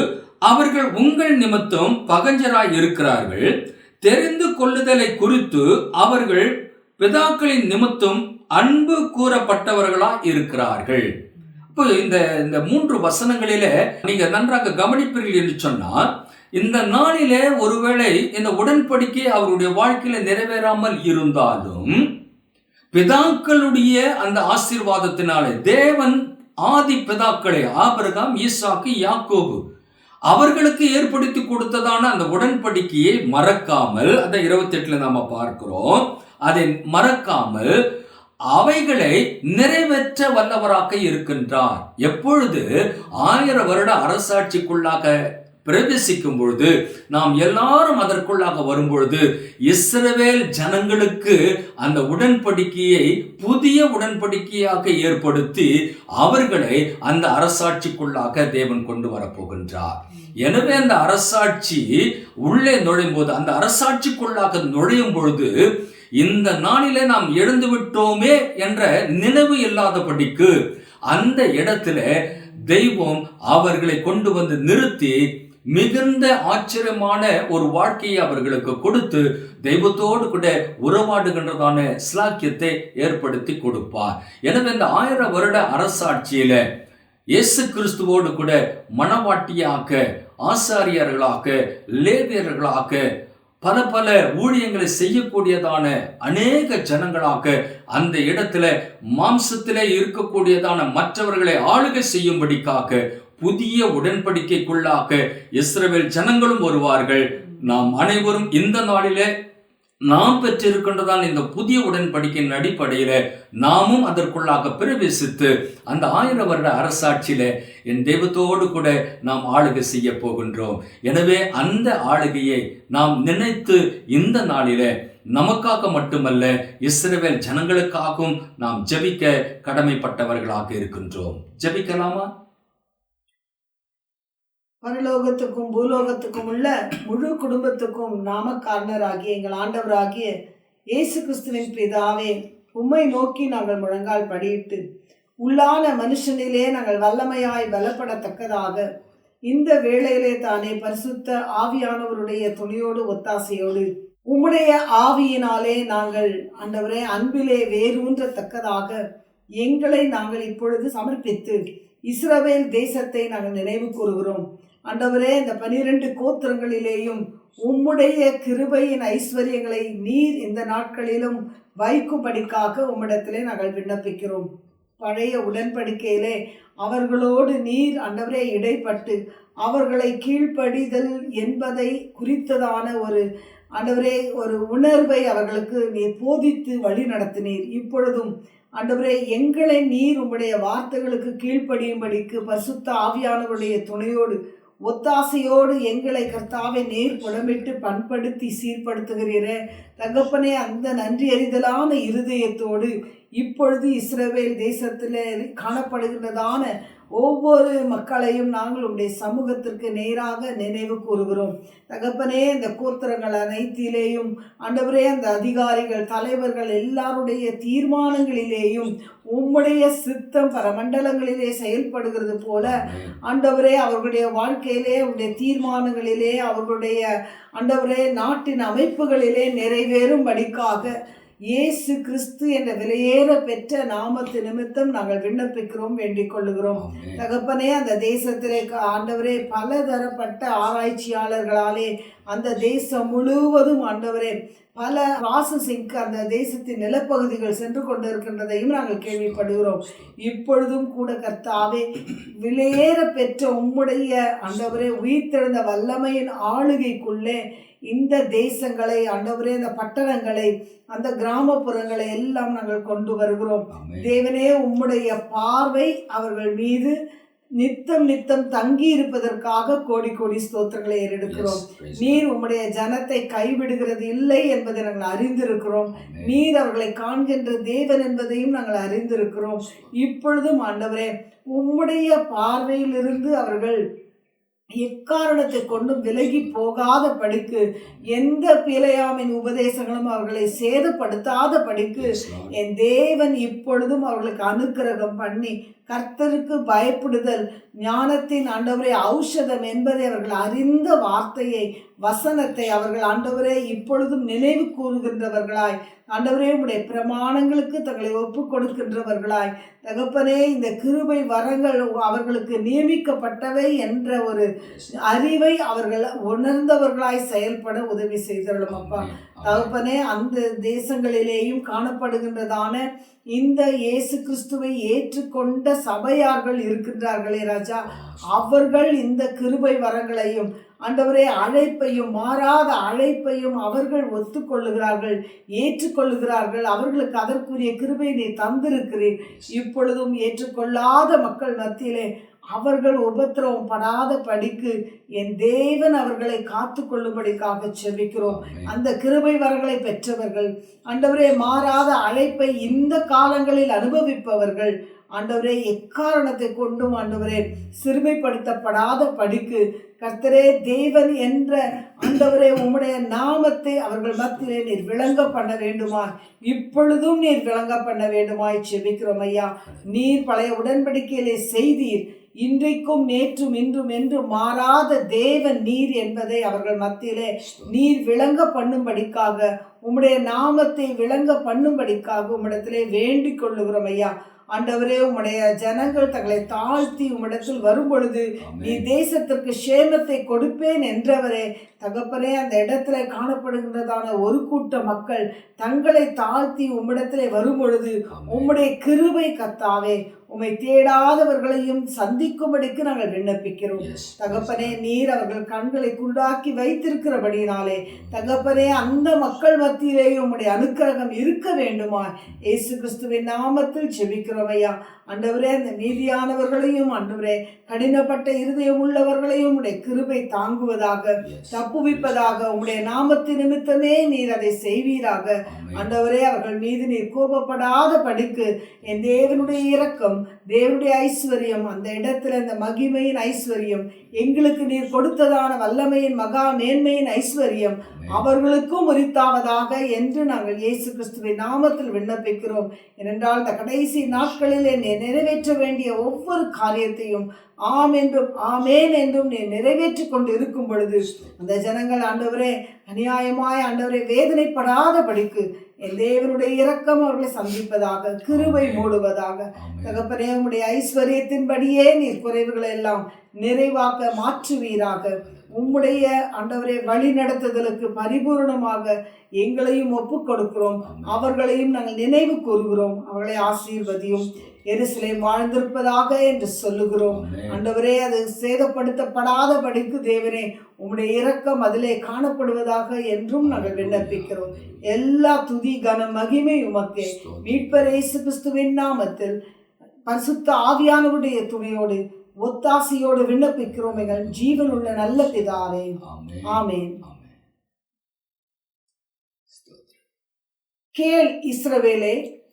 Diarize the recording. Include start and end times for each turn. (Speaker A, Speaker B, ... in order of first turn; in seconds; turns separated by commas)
Speaker A: 0.5-3.5, Speaker A: 4.0-11.1, Speaker A: 11.7-16.0, Speaker A: 16.6-22.0, Speaker A: 22.9-29.6, Speaker A: 30.3-37.7, Speaker A: 38.5-45.1, Speaker A: 45.6-61.9, Speaker A: 62.4-65.5, Speaker A: 66.2-70.5, Speaker A: 71.1-75.2, Speaker A: 75.7-86.6, Speaker A: 87.3-93.0, Speaker A: 93.6-109.3, Speaker A: 110.0-132.3, Speaker B: 134.8-140.3, Speaker B: 140.9-144.8, Speaker B: 145.4-148.8, Speaker B: 149.5-159.0, Speaker B: 159.6-161.6, Speaker B: 162.1-174.4, Speaker B: 175.0-183.2, Speaker B: 183.8-194.3, Speaker B: 194.9-227.0, Speaker A: 196.2-197.7, Speaker A: 199.8-200.3, Speaker A: 222.6-223.2, Speaker B: 227.6-231.0, Speaker B: 231.5-257.4, Speaker A: 236.8-237.2, Speaker A: 249.3-250.1, Speaker B: 257.9-266.9, Speaker A: 263.7-264.1, Speaker B: 267.6-283.8, Speaker A: 271.3-272.2, Speaker A: 275.9-276.4, Speaker B: 284.8-314.4, Speaker A: 285.7-286.5, Speaker A: 287.8-288.1, Speaker A: 291.9-292.5, Speaker A: 314.6-315.0, Speaker B: 315.0-322.8, Speaker A: 318.7-319.7, Speaker B: 323.3-489.3, Speaker A: 327.9-328.7, Speaker A: 339.2-339.5, Speaker A: 348.2-348.7, Speaker A: 351.0-353.5, Speaker A: 356.8-357.8, Speaker A: 369.6-370.0, Speaker A: 385.7-387.8, Speaker A: 388.4-388.8, Speaker A: 398.1-398.5, Speaker A: 403.8-404.7, Speaker A: 407.9-409.2, Speaker A: 421.2-422.4, Speaker A: 425.5-425.9, Speaker A: 428.9-429.9, Speaker A: 437.8-438.3, Speaker A: 444.0-446.4, Speaker A: 451.0-451.3, Speaker A: 458.3-458.9, Speaker A: 459.6-460.1, Speaker A: 465.2-466.0, Speaker A: 470.8-471.3, Speaker A: 477.1-477.6, Speaker A: 483.4-484.9, Speaker A: 487.0-488.1, Speaker B: 490.1-495.9, Speaker A: 493.7-497.4, Speaker B: 496.5-496.9, Speaker A: 499.5-500.0, Speaker B: 500.9-502.1